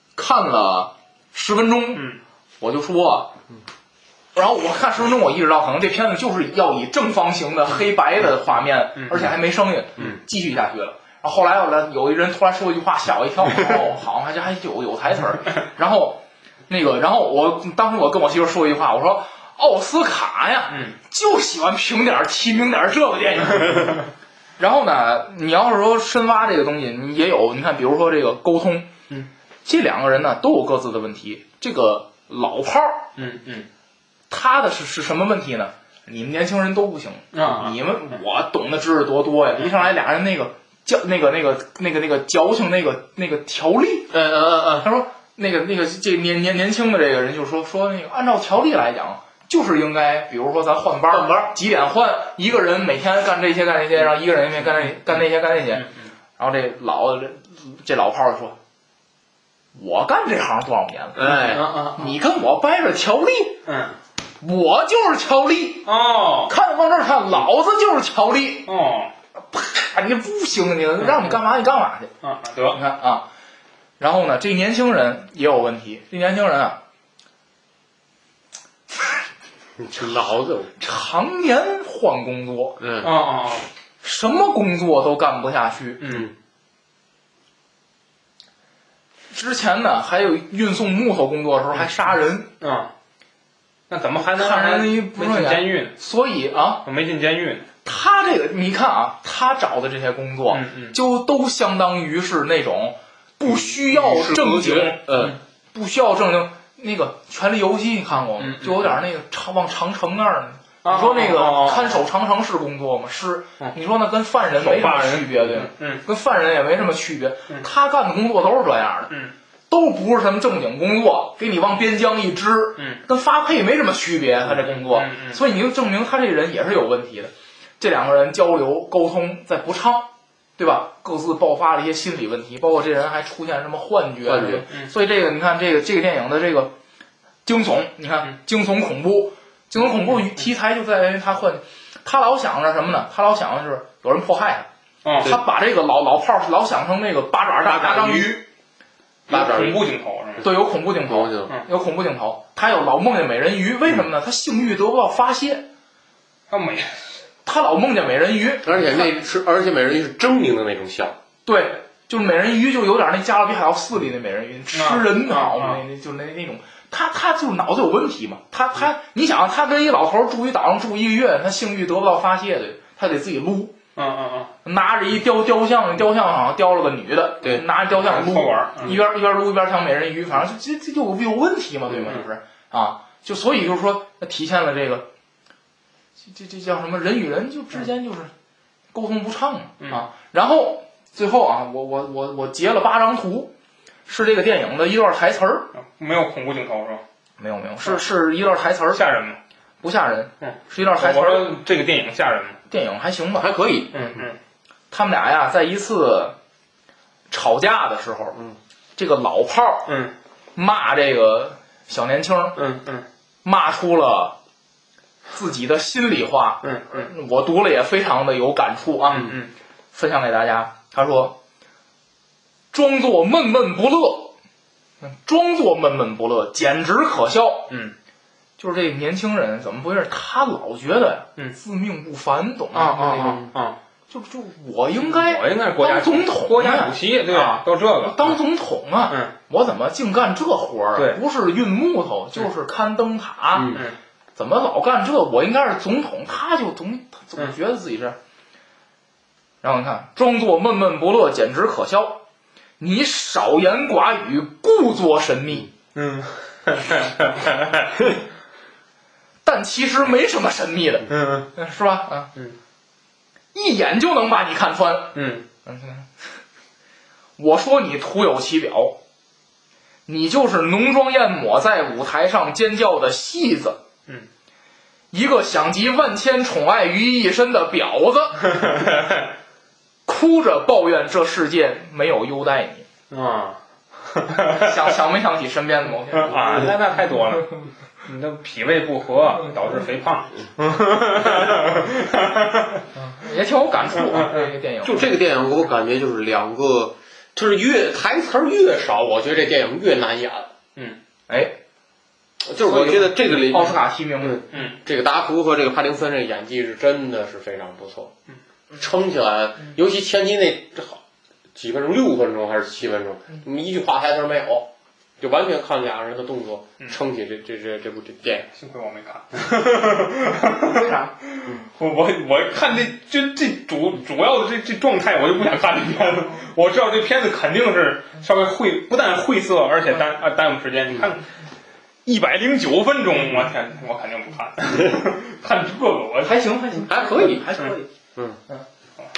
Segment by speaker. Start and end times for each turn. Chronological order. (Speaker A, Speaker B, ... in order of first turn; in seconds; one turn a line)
Speaker A: 0.1-2.1
Speaker A: 2.6-3.3
Speaker A: 4.3-24.1
Speaker B: 9.0-9.3
Speaker B: 20.7-20.9
Speaker A: 24.6-28.9
Speaker A: 29.6-33.1
Speaker B: 33.2-33.7
Speaker A: 34.3-44.1
Speaker B: 37.3-37.8
Speaker C: 44.1-44.9
Speaker A: 44.8-55.9
Speaker C: 51.1-51.5
Speaker A: 56.4-58.6
Speaker A: 59.8-61.3
Speaker C: 61.2-61.7
Speaker B: 61.5-62.1
Speaker A: 62.0-63.6
Speaker B: 63.7-64.0
Speaker A: 64.4-65.9
Speaker B: 65.9-66.5
Speaker A: 66.5-68.7
Speaker B: 68.7-69.1
Speaker A: 69.4-72.1
Speaker B: 71.0-71.4
Speaker B: 72.2-72.8
Speaker A: 72.7-73.3
Speaker A: 74.0-76.8
Speaker C: 79.8-80.7
Speaker A: 80.8-82.8
Speaker C: 82.8-83.1
Speaker B: 83.0-83.7
Speaker A: 84.0-86.1
Speaker B: 86.0-86.3
Speaker A: 89.3-92.5
Speaker B: 92.6-92.9
Speaker B: 93.9-95.9
Speaker A: 94.3-96.8
Speaker B: 96.8-97.7
Speaker A: 97.8-105.0
Speaker B: 100.5-101.0
Speaker C: 103.5-105.4
Speaker A: 105.7-119.1
Speaker B: 108.4-108.9
Speaker B: 110.8-112.0
Speaker B: 114.6-116.0
Speaker A: 119.7-136.7
Speaker B: 124.6-125.4
Speaker C: 134.2-134.6
Speaker A: 137.4-144.7
Speaker B: 145.0-145.4
Speaker A: 145.2-148.4
Speaker C: 147.6-148.4
Speaker C: 149.3-149.8
Speaker B: 149.3-150.5
Speaker A: 150.4-155.7
Speaker C: 151.1-151.6
Speaker B: 156.5-156.9
Speaker A: 157.4-159.1
Speaker C: 158.7-161.2
Speaker A: 161.4-173.8
Speaker B: 164.7-165.8
Speaker B: 174.0-174.5
Speaker A: 174.6-185.1
Speaker B: 177.9-179.0
Speaker A: 186.2-188.3
Speaker A: 188.9-193.5
Speaker B: 189.8-190.1
Speaker A: 194.1-195.7
Speaker B: 195.8-197.0
Speaker A: 197.4-199.1
Speaker B: 198.9-199.4
Speaker A: 199.8-201.6
Speaker B: 200.4-202.6
Speaker A: 202.7-203.5
Speaker C: 203.4-204.2
Speaker B: 203.9-204.4
Speaker A: 204.9-206.4
Speaker A: 207.3-208.4
Speaker A: 209.0-209.9
Speaker B: 209.9-210.1
Speaker A: 210.6-212.6
Speaker B: 212.6-213.1
Speaker A: 213.4-214.4
Speaker A: 215.3-219.3
Speaker B: 216.6-217.1
Speaker B: 219.1-219.5
Speaker A: 219.9-221.4
Speaker A: 222.7-224.3
Speaker A: 225.0-227.8
Speaker B: 227.7-227.9
Speaker A: 228.6-233.4
Speaker B: 232.7-233.8
Speaker A: 234.1-243.8
Speaker B: 235.0-238.4
Speaker C: 243.5-243.8
Speaker A: 244.4-248.2
Speaker A: 249.6-252.2
Speaker A: 252.8-255.7
Speaker B: 255.9-258.1
Speaker A: 259.4-262.3
Speaker B: 261.1-261.5
Speaker A: 263.5-266.1
Speaker B: 265.1-265.4
Speaker A: 267.4-269.0
Speaker A: 270.1-273.8
Speaker A: 275.1-278.8
Speaker B: 278.5-279.3
Speaker A: 280.1-282.9
Speaker B: 283.1-283.6
Speaker B: 284.1-284.9
Speaker A: 284.5-286.7
Speaker B: 286.1-292.8
Speaker C: 290.6-291.8
Speaker A: 293.0-295.1
Speaker B: 294.0-294.5
Speaker C: 294.8-300.5
Speaker A: 301.3-301.6
Speaker C: 302.4-308.1
Speaker A: 302.6-304.4
Speaker B: 304.5-304.8
Speaker C: 308.7-311.0
Speaker C: 311.6-318.5
Speaker B: 318.5-331.3
Speaker A: 320.6-321.1
Speaker B: 332.1-336.4
Speaker A: 336.2-337.9
Speaker C: 336.9-337.6